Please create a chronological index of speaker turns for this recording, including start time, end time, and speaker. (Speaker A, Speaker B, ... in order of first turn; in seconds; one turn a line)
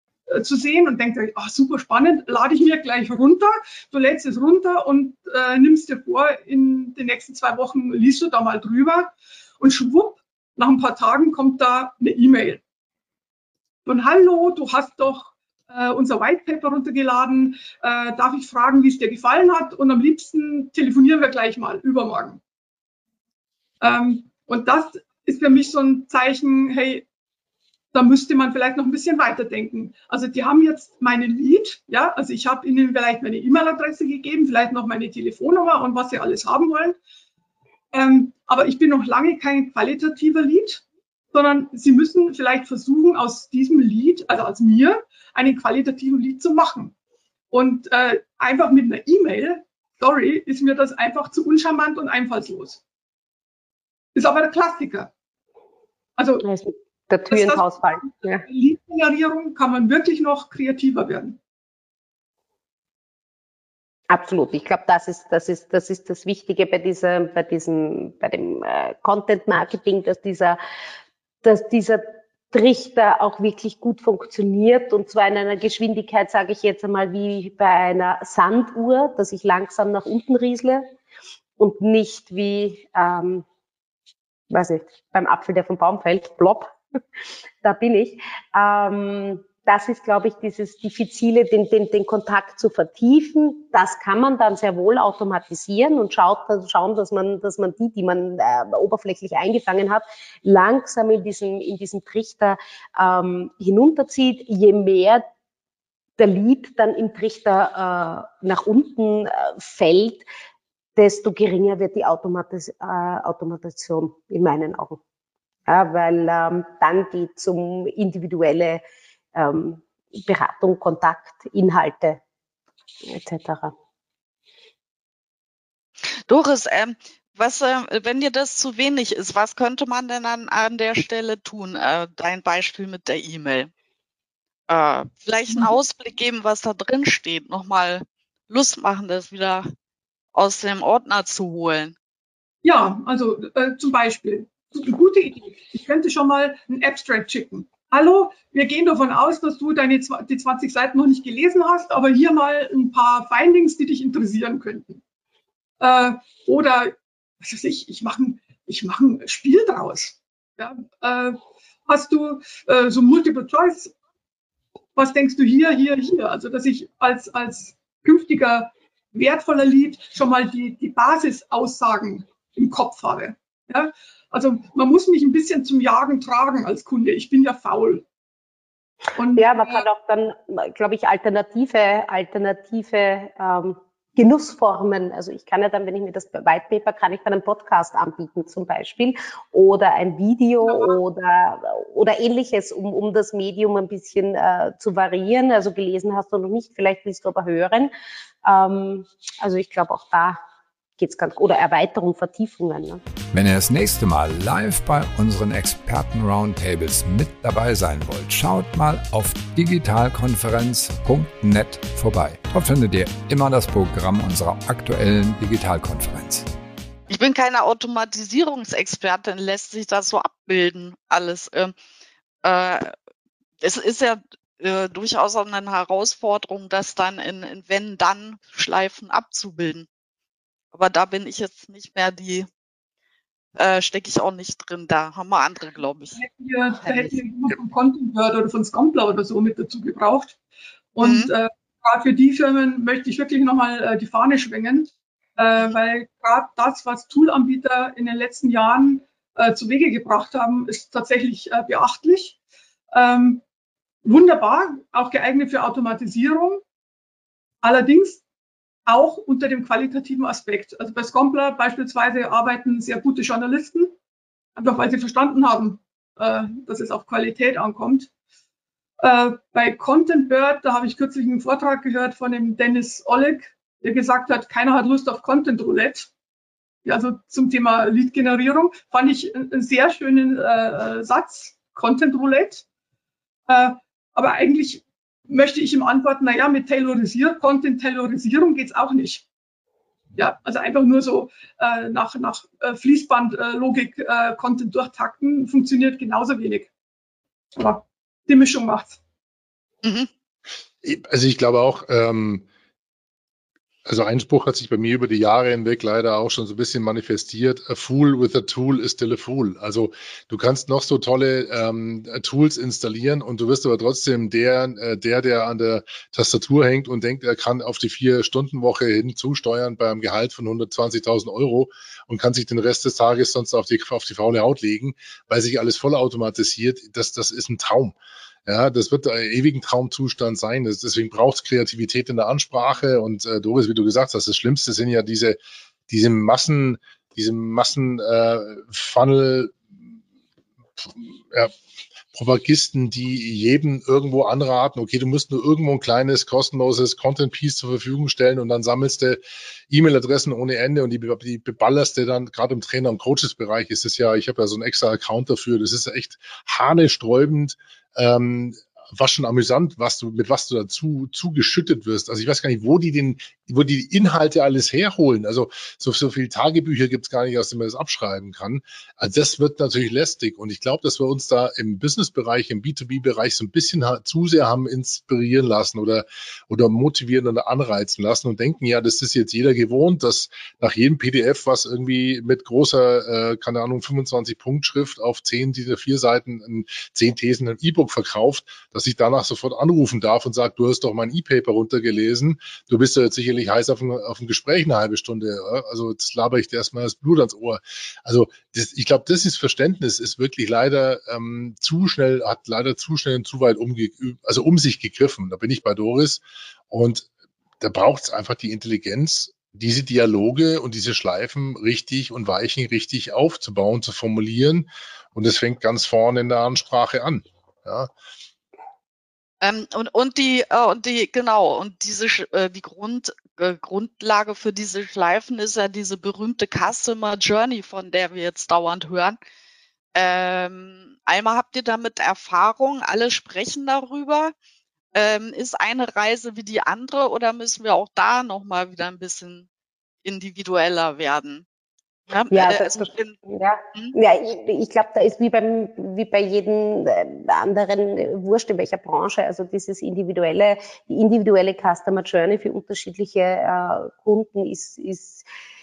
Speaker A: 0.3-12.6
Speaker A: 13.9-22.4
Speaker A: 23.8-27.1
Speaker A: 27.9-37.0
Speaker A: 37.9-46.9
Speaker A: 47.5-52.8
Speaker A: 54.1-55.1
Speaker A: 56.2-56.5
Speaker B: 56.4-58.5
Speaker A: 57.3-61.4
Speaker B: 64.1-70.6
Speaker B: 71.4-80.8
Speaker B: 81.6-83.5
Speaker B: 84.5-86.8
Speaker B: 87.6-105.2
Speaker B: 106.2-110.2
Speaker B: 111.0-115.0
Speaker B: 115.7-118.8
Speaker B: 119.3-122.2
Speaker B: 123.0-123.7
Speaker C: 126.3-133.7
Speaker C: 134.7-139.7
Speaker C: 140.3-142.0
Speaker A: 142.6-155.0
Speaker A: 155.8-163.9
Speaker A: 165.0-178.1
Speaker A: 179.2-179.8
Speaker B: 179.4-197.9
Speaker A: 190.6-190.9
Speaker B: 198.4-200.4
Speaker B: 201.0-203.0
Speaker D: 203.3-216.5
Speaker C: 217.1-221.7
Speaker C: 222.4-222.9
Speaker C: 223.6-229.9
Speaker C: 230.7-232.5
Speaker C: 233.6-236.2
Speaker A: 236.2-240.4
Speaker C: 236.8-237.2
Speaker A: 240.9-252.4
Speaker C: 241.0-241.3
Speaker A: 252.9-253.4
Speaker A: 254.0-256.6
Speaker A: 257.6-258.2
Speaker A: 258.9-263.9
Speaker A: 264.6-268.1
Speaker A: 269.0-276.1
Speaker A: 276.9-282.6
Speaker A: 283.5-289.2
Speaker A: 290.2-296.7
Speaker A: 297.6-299.0
Speaker C: 299.8-300.1
Speaker E: 300.8-302.5
Speaker E: 303.9-328.0
Speaker E: 328.5-335.4
Speaker E: 335.9-339.6
Speaker E: 340.8-341.5
Speaker E: 342.1-407.1
Speaker E: 407.6-417.9
Speaker C: 419.4-429.2
Speaker C: 429.9-434.3
Speaker C: 434.9-439.5
Speaker C: 440.0-441.4
Speaker C: 442.1-443.2
Speaker B: 442.3-455.2